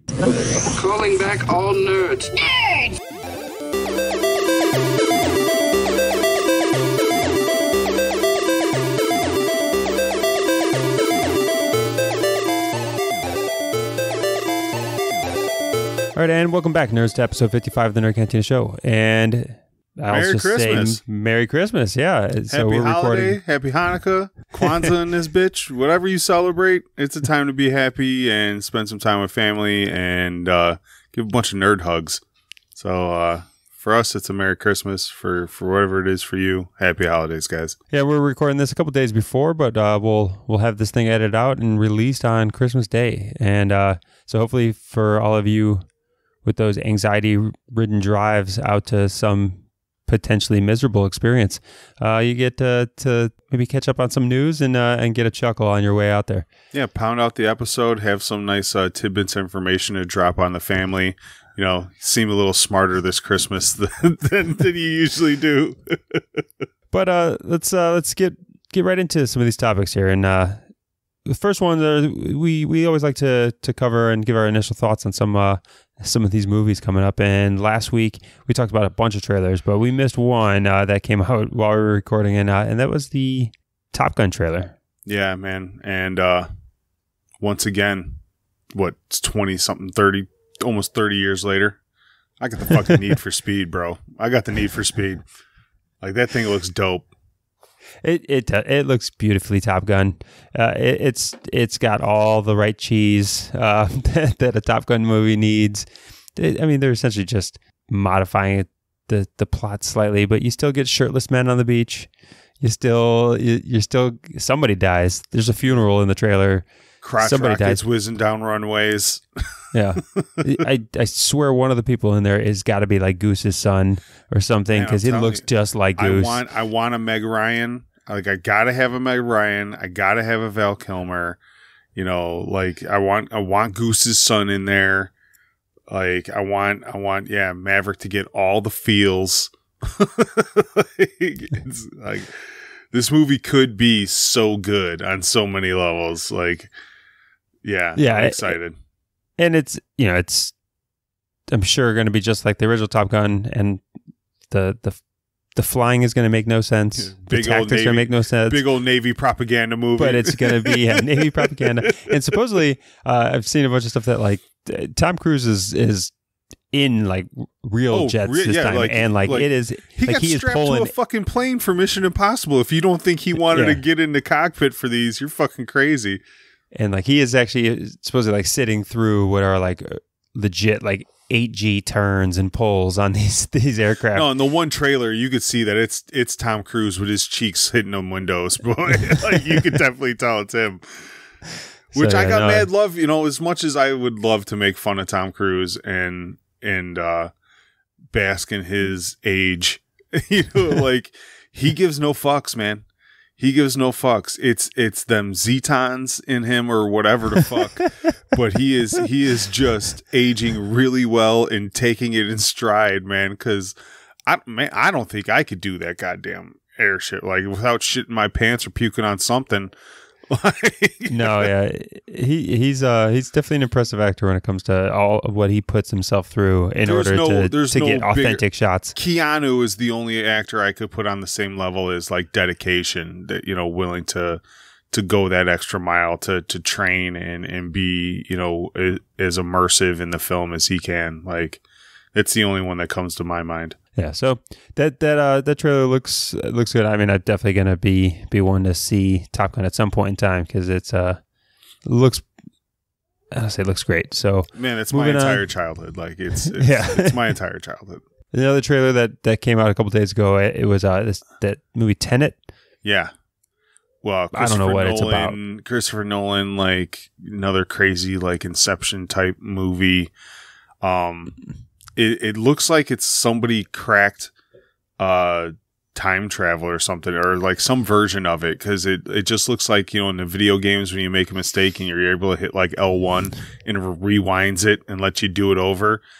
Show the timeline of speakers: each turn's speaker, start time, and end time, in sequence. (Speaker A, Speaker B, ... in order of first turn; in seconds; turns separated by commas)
Speaker A: 0.3-2.9, Speaker B: 16.1-23.4, Speaker C: 20.1-21.0, Speaker C: 22.5-32.2, Speaker B: 24.6-24.9, Speaker C: 32.7-37.8, Speaker B: 37.9-45.8, Speaker B: 46.4-56.5, Speaker C: 56.7-66.4, Speaker B: 66.9-70.6, Speaker B: 71.2-84.7, Speaker C: 85.0-86.5, Speaker C: 87.4-88.2, Speaker C: 88.7-91.8, Speaker C: 92.4-95.2, Speaker C: 96.0-97.1, Speaker B: 98.0-112.1, Speaker B: 112.6-116.7, Speaker C: 117.0-119.5, Speaker B: 117.2-117.8, Speaker B: 119.7-126.4, Speaker C: 120.2-120.6, Speaker C: 124.7-131.4, Speaker C: 131.9-135.1, Speaker C: 135.9-146.7, Speaker C: 147.6-148.8, Speaker B: 147.9-148.6, Speaker B: 149.4-150.5, Speaker B: 151.5-153.8, Speaker B: 154.5-155.0, Speaker B: 155.5-158.6, Speaker C: 157.0-162.2, Speaker B: 160.0-166.1, Speaker B: 166.7-170.9, Speaker C: 167.9-176.2, Speaker B: 173.4-173.8, Speaker B: 176.7-184.3, Speaker C: 184.1-191.1, Speaker B: 191.9-192.7, Speaker C: 191.9-197.3, Speaker C: 198.1-202.8, Speaker C: 203.4-219.7, Speaker C: 220.3-221.5, Speaker B: 221.1-228.9, Speaker C: 226.8-228.4, Speaker C: 228.9-241.6, Speaker C: 242.1-243.8, Speaker B: 243.9-251.2, Speaker B: 251.8-252.2, Speaker B: 253.3-255.5, Speaker C: 254.5-258.0, Speaker B: 256.4-257.2, Speaker B: 258.3-262.4, Speaker C: 262.8-263.1, Speaker C: 264.0-270.1, Speaker B: 264.3-265.4, Speaker C: 270.8-271.4, Speaker C: 271.9-274.3, Speaker C: 275.0-286.0